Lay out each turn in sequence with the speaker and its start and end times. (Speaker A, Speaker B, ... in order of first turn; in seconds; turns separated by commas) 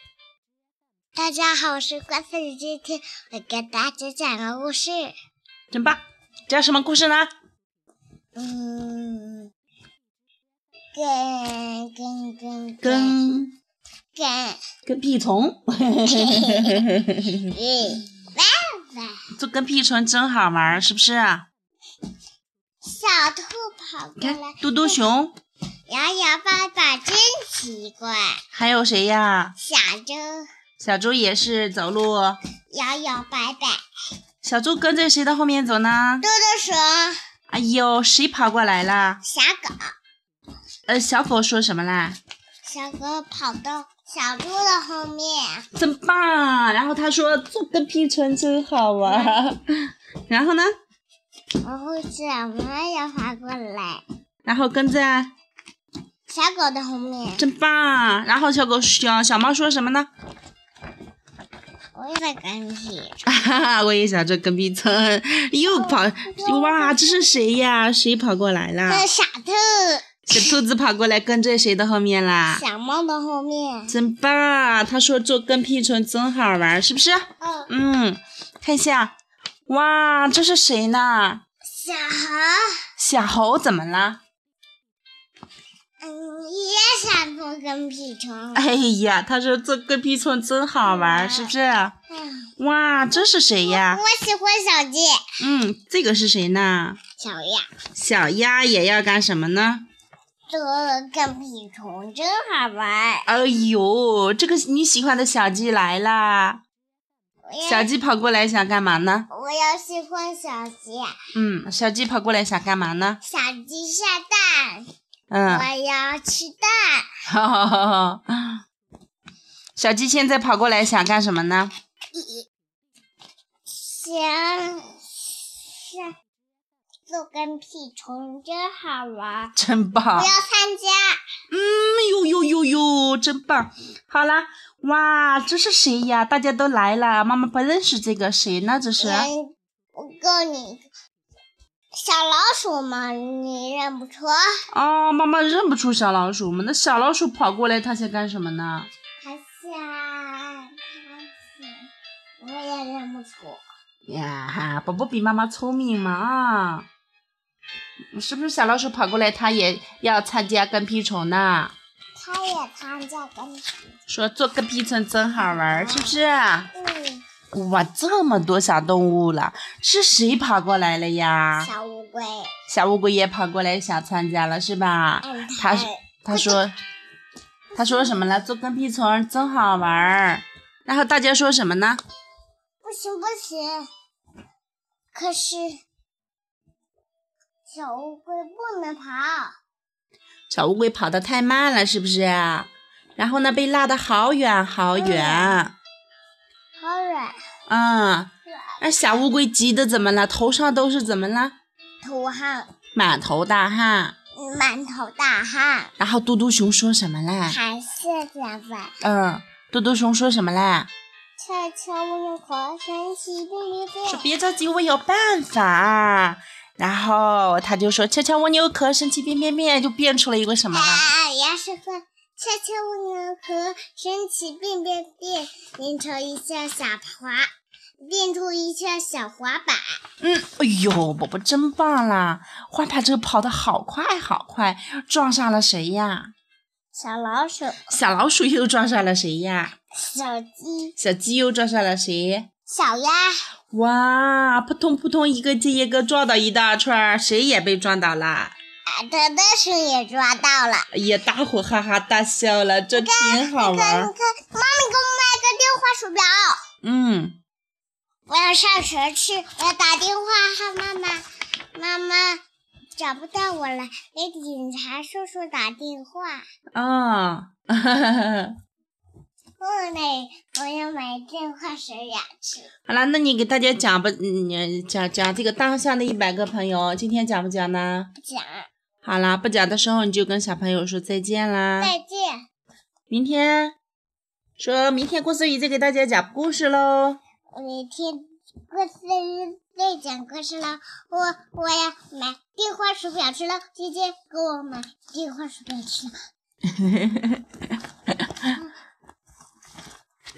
Speaker A: 1.1-5.1, Speaker B: 5.7-7.3, Speaker A: 8.4-9.5, Speaker A: 10.9-13.2, Speaker B: 12.8-13.6, Speaker A: 14.2-14.6, Speaker B: 14.9-17.5, Speaker A: 16.0-19.2, Speaker B: 19.3-21.5, Speaker A: 22.8-25.0, Speaker B: 24.2-25.3, Speaker A: 25.9-28.4, Speaker B: 28.5-29.6, Speaker A: 29.6-30.5, Speaker B: 30.8-32.4, Speaker A: 32.7-33.8, Speaker B: 34.4-36.3, Speaker A: 36.2-37.2, Speaker B: 37.5-39.2, Speaker A: 39.2-39.9, Speaker B: 40.9-42.2, Speaker A: 42.6-45.7, Speaker B: 45.8-50.7, Speaker A: 49.1-49.4, Speaker A: 51.6-54.0, Speaker B: 54.5-55.3, Speaker A: 56.3-57.5, Speaker B: 57.4-60.1, Speaker A: 62.0-63.2, Speaker B: 63.2-69.1, Speaker A: 65.6-67.5, Speaker A: 68.9-70.6, Speaker B: 70.3-72.6, Speaker A: 72.5-74.0, Speaker B: 73.9-79.1, Speaker A: 77.4-77.7, Speaker B: 79.7-81.4, Speaker A: 81.7-82.8, Speaker B: 83.0-84.2, Speaker A: 86.0-88.8, Speaker B: 88.5-92.0, Speaker A: 90.8-91.5, Speaker A: 92.1-92.5, Speaker B: 92.6-94.0, Speaker A: 93.1-95.2, Speaker B: 95.4-97.0, Speaker A: 97.2-97.7, Speaker B: 98.0-99.8, Speaker A: 100.5-103.3, Speaker B: 103.3-106.6, Speaker A: 107.5-107.9, Speaker B: 107.7-109.3, Speaker A: 109.3-111.2, Speaker B: 111.3-113.2, Speaker A: 113.2-114.9, Speaker B: 115.3-115.7, Speaker A: 115.5-117.1, Speaker B: 117.3-118.6, Speaker B: 119.8-121.7, Speaker A: 122.1-122.5, Speaker A: 123.7-126.1, Speaker A: 127.1-129.6, Speaker B: 129.6-130.3, Speaker A: 130.1-131.2, Speaker B: 131.5-139.3, Speaker A: 139.0-140.9, Speaker A: 142.0-144.4, Speaker B: 144.7-148.9, Speaker A: 149.2-151.9, Speaker A: 152.4-153.6, Speaker B: 154.1-156.9, Speaker B: 158.1-161.7, Speaker A: 162.2-163.8, Speaker B: 164.1-166.7, Speaker A: 165.3-166.2, Speaker A: 166.7-167.2, Speaker B: 167.5-171.7, Speaker A: 171.6-172.5, Speaker B: 172.7-176.8, Speaker A: 175.2-176.6, Speaker A: 177.7-178.4, Speaker B: 177.8-182.0, Speaker A: 182.8-183.9, Speaker A: 185.1-185.8, Speaker A: 187.7-189.5, Speaker B: 190.5-195.7, Speaker A: 194.9-195.6, Speaker A: 196.8-197.4, Speaker B: 197.7-198.3, Speaker A: 198.5-198.8, Speaker B: 198.8-201.6, Speaker A: 202.0-202.7, Speaker B: 202.9-204.2, Speaker A: 204.4-205.9, Speaker B: 206.0-207.6, Speaker A: 207.5-208.9, Speaker B: 209.0-210.9, Speaker A: 211.4-214.3, Speaker B: 214.1-221.0, Speaker A: 220.7-227.5, Speaker A: 228.0-230.0, Speaker B: 230.2-236.3, Speaker A: 236.9-237.9, Speaker B: 237.9-239.7, Speaker A: 239.9-240.9, Speaker B: 241.0-242.5, Speaker A: 242.7-243.4, Speaker B: 243.7-248.5, Speaker A: 248.9-250.9, Speaker B: 250.9-254.1, Speaker A: 252.9-256.6, Speaker B: 256.8-257.4, Speaker A: 258.3-261.2, Speaker A: 261.7-262.4, Speaker A: 263.0-266.4, Speaker B: 266.7-268.6, Speaker A: 269.6-272.7, Speaker B: 272.9-278.1, Speaker A: 278.2-278.7, Speaker B: 279.0-281.9, Speaker A: 281.8-282.4, Speaker B: 283.1-283.8, Speaker B: 284.6-287.2, Speaker A: 287.5-296.2, Speaker B: 296.7-298.5